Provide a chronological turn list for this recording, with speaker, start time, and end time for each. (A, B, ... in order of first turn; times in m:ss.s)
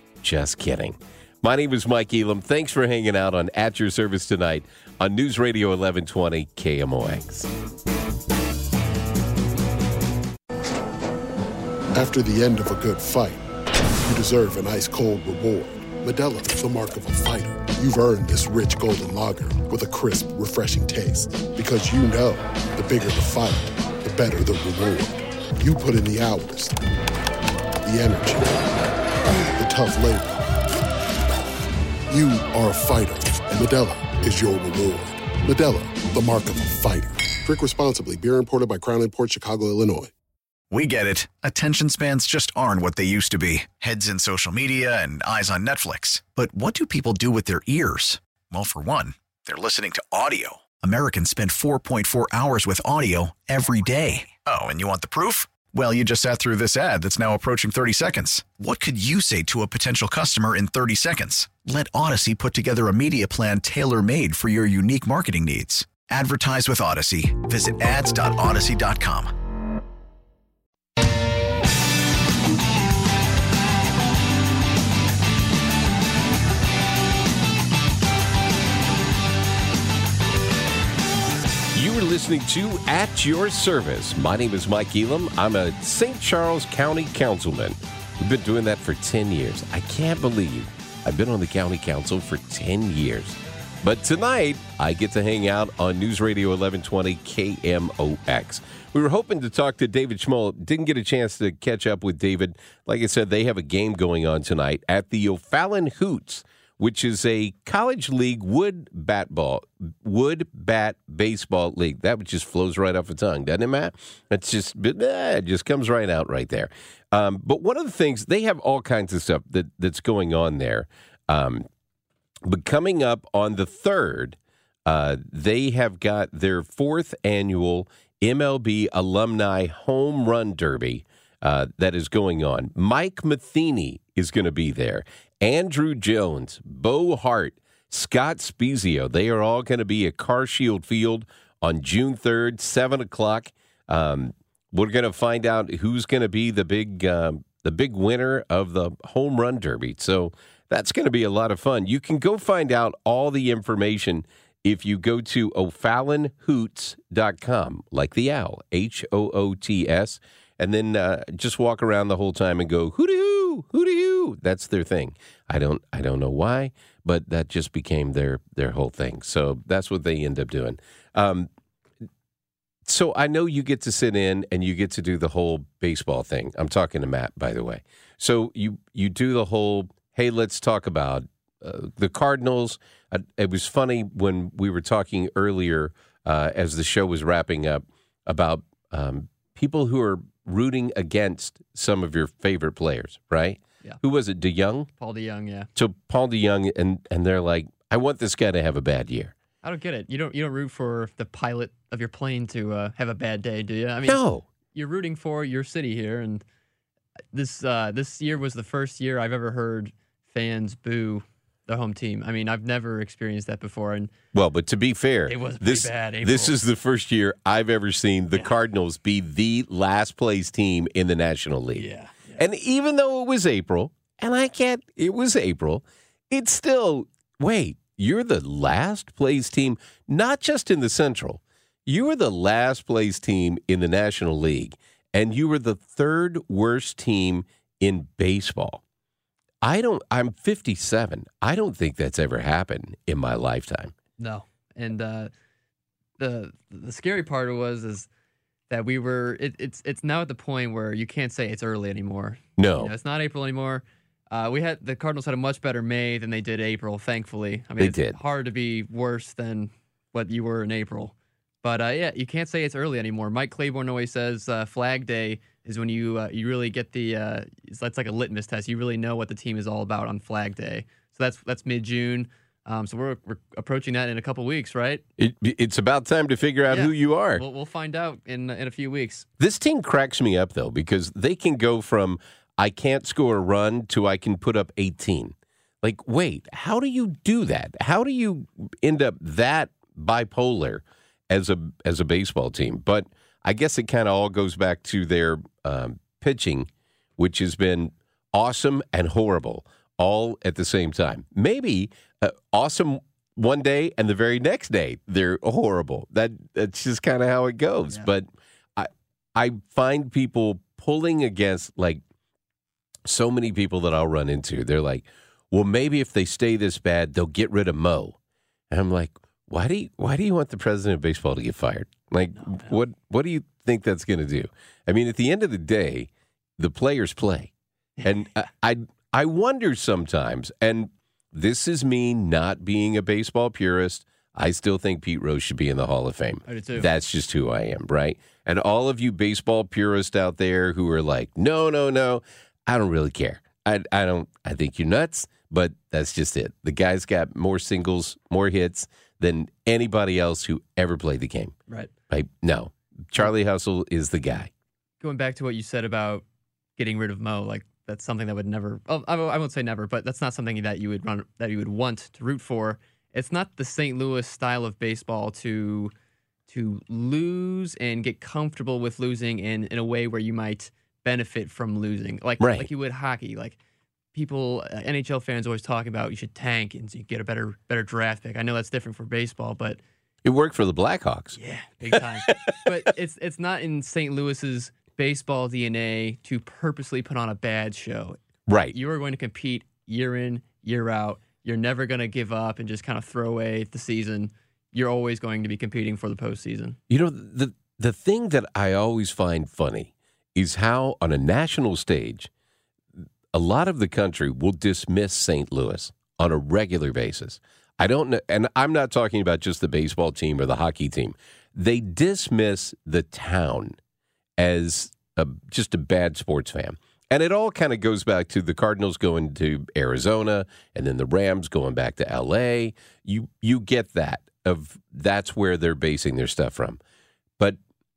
0:00.2-0:07.5 A
0:11.9-0:13.4 B
0:14.0-0:26.7 B
0:27.8-0:28.7 B
0:29.6-0:30.5 B
0:32.1-0:40.1 B
0:40.7-1:09.3 C
1:21.7-2:01.7 A
2:02.4-2:51.5 A
2:52.8-3:14.9 A
3:15.0-3:15.7 D
3:15.8-3:19.3 A
3:19.6-3:26.4 D
3:24.0-3:24.4 A
3:27.3-3:34.1 D
3:34.3-3:58.8 A
3:35.3-3:36.6 D
3:41.8-3:42.4 D
3:59.6-4:03.9 A
4:04.2-4:05.3 D
4:06.2-4:08.1 D
4:08.7-4:35.0 D
4:12.6-4:12.9 A
4:17.8-4:18.2 A
4:35.2-4:37.4 A
4:36.7-4:39.3 D
4:39.4-5:12.0 A
5:13.0-5:18.2 A
5:18.7-5:51.5 A
5:22.4-5:22.7 D
5:36.4-5:36.9 D
5:52.1-5:54.5 A
5:55.0-5:56.2 D
5:56.8-6:05.9 D
6:06.5-6:13.6 D
6:12.4-6:12.7 A
6:14.1-6:19.8 D
6:20.2-6:21.4 A
6:21.4-6:28.2 D
6:21.9-6:22.8 A
6:28.5-6:28.8 A
6:28.7-6:36.8 D
6:36.9-6:42.3 A
6:43.3-6:53.8 A
6:54.4-7:06.8 A